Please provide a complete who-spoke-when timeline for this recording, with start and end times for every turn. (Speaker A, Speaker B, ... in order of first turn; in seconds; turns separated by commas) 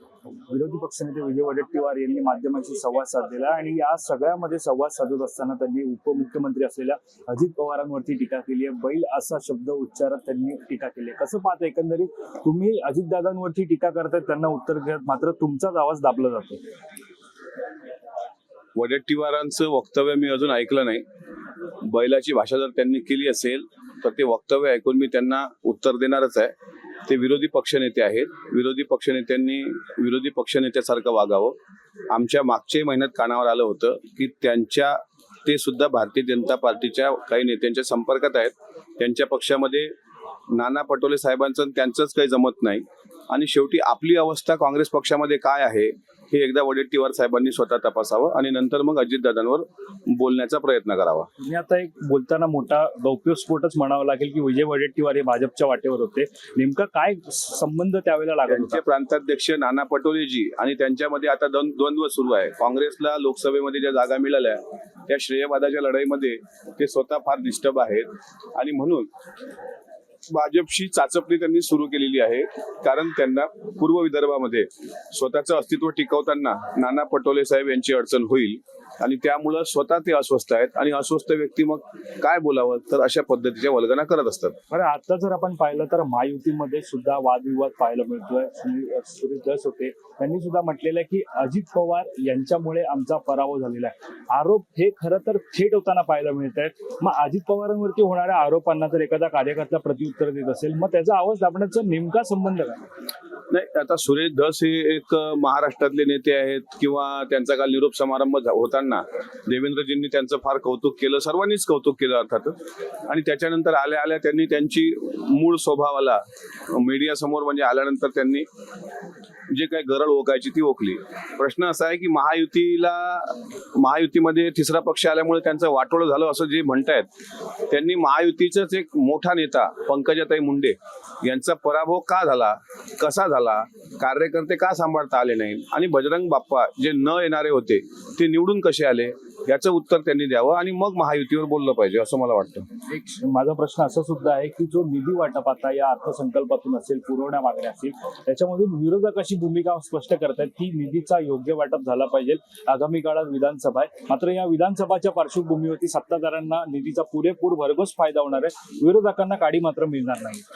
Speaker A: 0.5-16.6, Speaker B: 18.8-21.0, Speaker B: 21.8-26.5, Speaker B: 27.1-31.6, Speaker B: 32.1-39.9, Speaker B: 40.5-51.3, Speaker A: 51.4-58.8, Speaker B: 58.5-69.1, Speaker B: 70.3-84.5, Speaker A: 84.7-102.8, Speaker B: 103.5-112.5, Speaker B: 113.1-118.5, Speaker B: 119.5-127.1, Speaker B: 127.7-142.7, Speaker A: 142.9-160.4